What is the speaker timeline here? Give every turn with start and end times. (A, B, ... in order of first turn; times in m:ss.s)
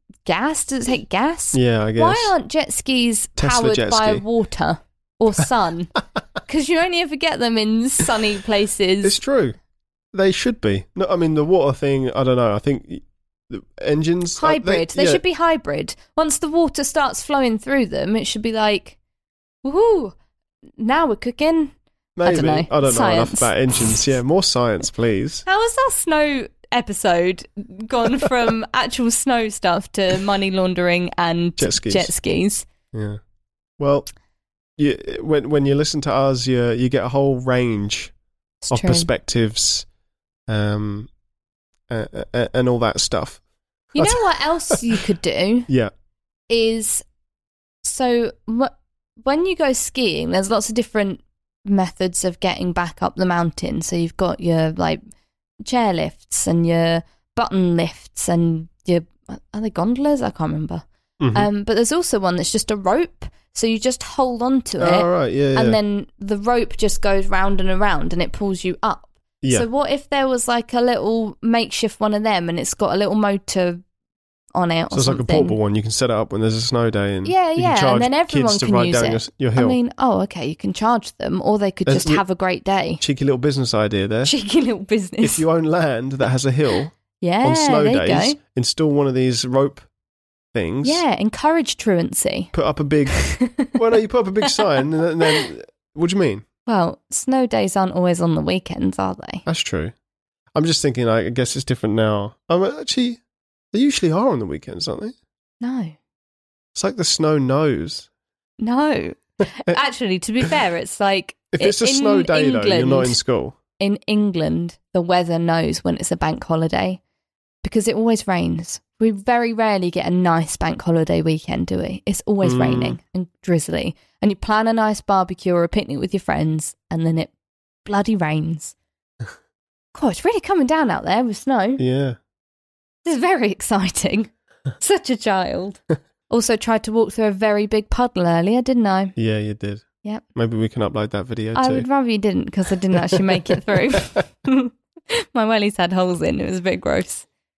0:00.2-0:05.9 A
0:01.5-0:02.3 B
0:03.4-0:04.2 B
0:06.4-0:09.2 A
0:09.0-0:09.6 B
0:10.1-0:15.2 B
0:14.4-0:19.0 A
0:19.6-0:20.1 A
0:20.8-0:23.9 A
0:22.2-0:25.4 B
0:25.4-0:32.6 A
0:31.6-0:32.1 B
0:32.9-0:33.2 B
0:33.8-0:34.1 B
0:34.8-0:38.1 B
0:38.6-0:39.1 A
0:38.7-0:39.8 B
0:40.5-0:41.1 B
0:41.9-0:43.4 B
0:43.9-0:44.8 B
0:43.9-0:45.7 A
0:46.5-0:47.0 A
0:47.8-0:55.0 A
0:55.6-1:13.8 A
1:01.2-1:01.5 B
1:04.8-1:05.8 B
1:09.4-1:09.7 B
1:14.5-1:15.6 A
1:14.9-1:19.8 B
1:17.2-1:23.0 A
1:21.8-1:22.2 B
1:23.0-1:24.3 B
1:24.2-1:25.4 A
1:25.2-1:29.9 B
1:27.2-1:28.4 A
1:30.5-1:31.0 B
1:30.8-1:32.5 A
1:32.5-1:36.4 B
1:33.1-1:33.7 A
1:36.7-1:39.4 A
1:39.4-1:39.9 B
1:40.5-1:43.2 B
1:43.7-1:45.1 B
1:45.6-1:45.9 A
1:46.7-1:48.1 B
1:48.6-1:53.2 A
1:51.5-1:53.6 B
1:53.8-1:57.0 A
1:57.6-2:07.3 A
2:02.4-2:03.0 B
2:07.8-2:08.7 A
2:09.9-2:11.8 A
2:11.8-2:12.2 B
2:13.0-2:19.1 A
2:19.2-2:21.8 B
2:21.5-2:27.2 A
2:22.9-2:23.6 B